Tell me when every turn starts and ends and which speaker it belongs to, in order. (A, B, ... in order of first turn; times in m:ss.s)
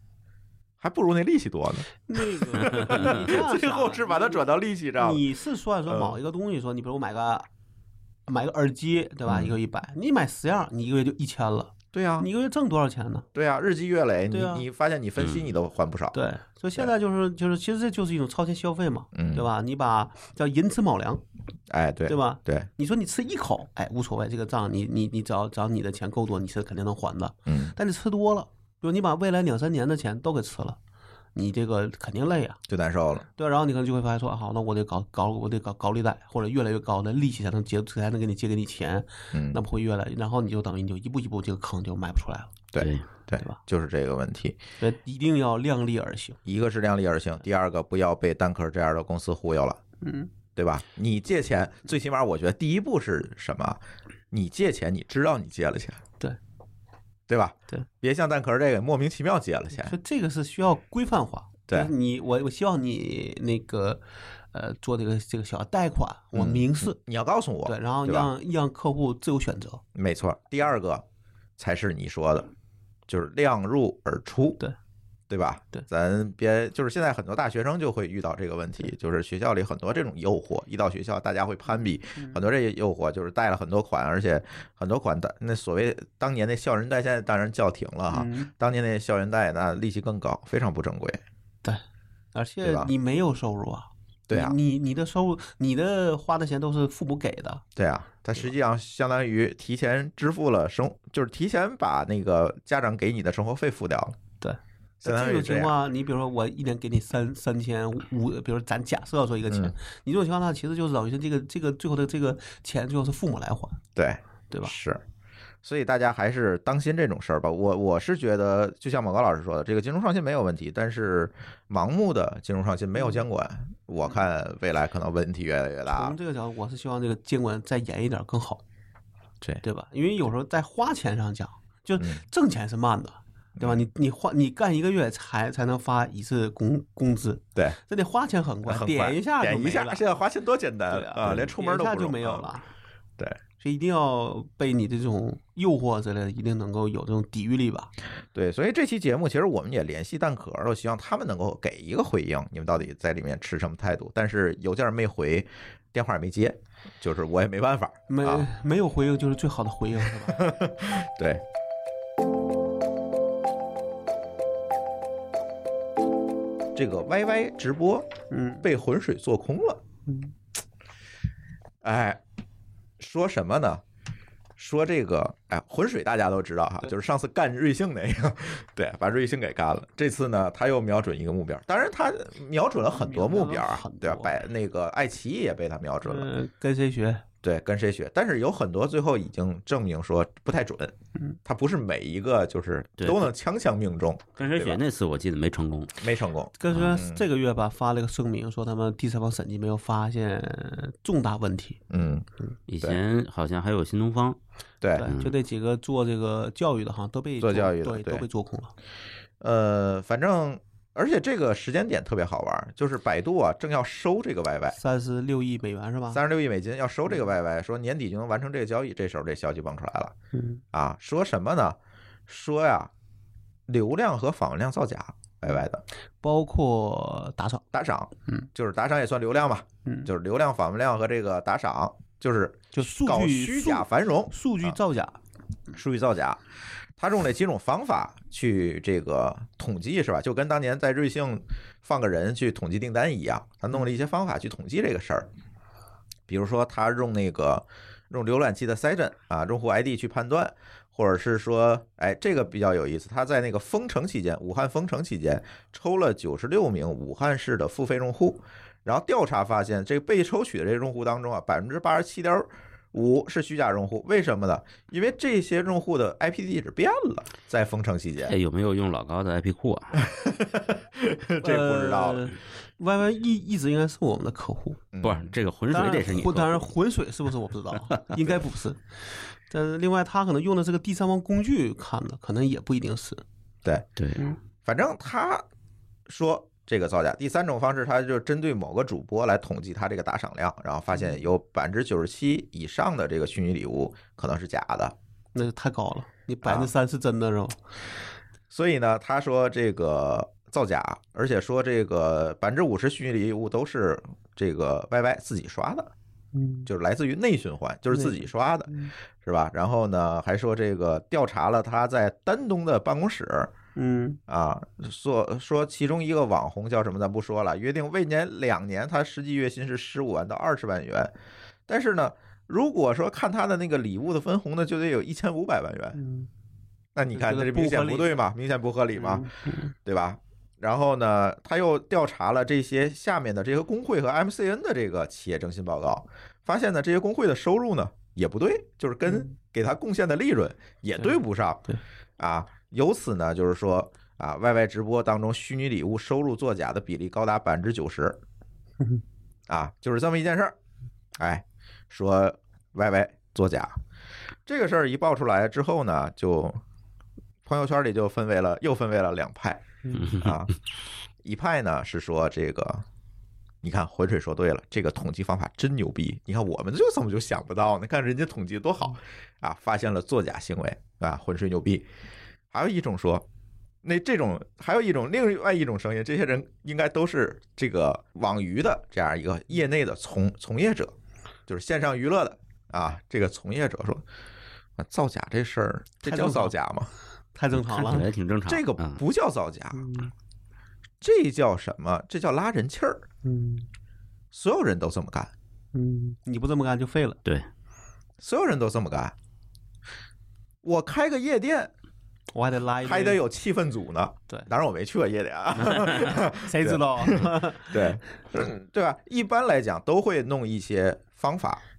0:00.8-0:05.3 A
0:02.1-0:04.4 B
0:05.0-0:07.5 B
0:05.9-0:06.2 A
0:08.3-0:13.3 B
0:09.3-0:09.6 A
0:11.9-0:12.3 A
0:13.3-0:16.2 A
0:14.3-0:14.6 B
0:15.2-0:15.5 C
0:16.1-0:21.2 B
0:19.1-0:19.5 A
0:21.7-0:22.7 A
0:22.1-0:30.8 B
0:27.5-0:27.7 A
0:31.3-0:32.6 B
0:32.7-0:33.2 A
0:33.3-0:42.5 B
0:39.3-0:39.6 A
0:42.7-0:44.6 A
0:42.8-0:43.0 C
0:44.8-0:46.4 B
0:46.4-0:49.8 A
0:50.0-0:50.3 B
0:50.6-0:53.8 A
0:54.3-0:56.0 A
0:57.3-0:59.9 A
0:59.8-1:04.0 B
1:04.5-1:07.0 B
1:06.3-1:08.3 A
1:07.6-1:09.8 B
1:09.9-1:11.0 A
1:11.6-1:12.5 A
1:13.1-1:14.6 A
1:15.3-1:31.2 A
1:28.1-1:28.5 B
1:32.3-1:37.6 B
1:32.6-1:32.9 A
1:34.3-1:34.6 A
1:37.8-1:44.2 A
1:44.4-1:53.8 B
1:45.0-1:45.7 A
1:49.5-1:49.7 A
1:53.9-1:55.0 A
1:55.6-2:06.2 A
2:05.9-2:08.6 B
2:09.6-2:20.0 B
2:13.6-2:13.9 A
2:18.6-2:22.5 A
2:20.9-2:22.7 B
2:23.6-2:27.9 B
2:28.3-2:38.5 A
2:38.1-2:40.5 B
2:40.2-2:41.4 A
2:46.7-2:48.1 A
2:48.3-2:48.6 B
2:48.6-2:49.8 A
2:50.1-2:50.3 B
2:51.8-2:52.2 A
2:53.0-2:53.8 A
2:54.6-3:06.3 A
3:02.9-3:04.4 B
3:06.0-3:07.2 B
3:07.4-3:14.8 A
3:13.0-3:13.3 C
3:14.4-3:16.0 C
3:16.0-3:17.2 A
3:16.6-3:21.8 B
3:21.9-3:22.3 A
3:22.7-3:24.4 C
3:24.8-3:25.1 A
3:25.0-3:28.7 B
3:25.0-3:25.4 C
3:27.4-3:28.2 A
3:29.4-3:34.8 A
3:34.7-3:36.2 B
3:36.1-3:40.1 A
3:40.3-3:40.6 B
3:40.7-3:41.8 A
3:42.3-3:42.9 A
3:43.7-3:45.8 A
3:46.2-3:47.6 B
3:47.7-3:54.8 A
3:52.7-3:55.2 B
3:55.7-3:56.4 A
3:57.0-4:05.3 A
4:06.3-4:28.4 A
4:28.2-4:30.0 C
4:30.0-4:32.3 A
4:31.4-4:34.8 B
4:34.9-4:35.3 A
4:35.0-4:36.7 C
4:35.7-4:38.8 B
4:39.5-4:43.2 B
4:44.6-4:45.4 A
4:46.1-4:54.9 A
4:55.3-4:57.6 B
4:56.4-4:56.7 A
4:58.5-5:05.9 A
5:06.3-5:06.7 B
5:06.6-5:13.5 A
5:07.9-5:08.9 B
5:13.8-5:14.2 B
5:14.3-5:21.1 A
5:21.7-5:26.0 A
5:25.9-5:26.3 B
5:26.9-5:41.6 A
5:27.1-5:28.1 B
5:29.0-5:29.7 B
5:42.2-5:48.2 A
5:49.5-5:50.6 A
5:51.2-5:53.8 A
5:54.4-5:56.6 A
5:57.4-6:00.5 A
6:00.0-6:00.3 C
6:01.2-6:02.8 A
6:03.6-6:11.8 A
6:12.5-6:13.2 A
6:13.8-6:20.9 A
6:21.5-6:24.0 A
6:24.8-6:26.9 A
6:26.0-6:26.6 B
6:27.3-6:28.1 B
6:27.5-6:29.0 C
6:28.5-6:29.9 A
6:29.7-6:30.1 B
6:31.0-6:33.0 A
6:33.2-6:33.7 B
6:34.3-6:35.3 A
6:35.7-6:37.2 B
6:38.2-6:39.1 A
6:40.6-6:41.7 A
6:42.3-6:43.2 B
6:42.8-6:51.6 A
6:45.6-6:45.9 C
6:45.9-6:48.0 B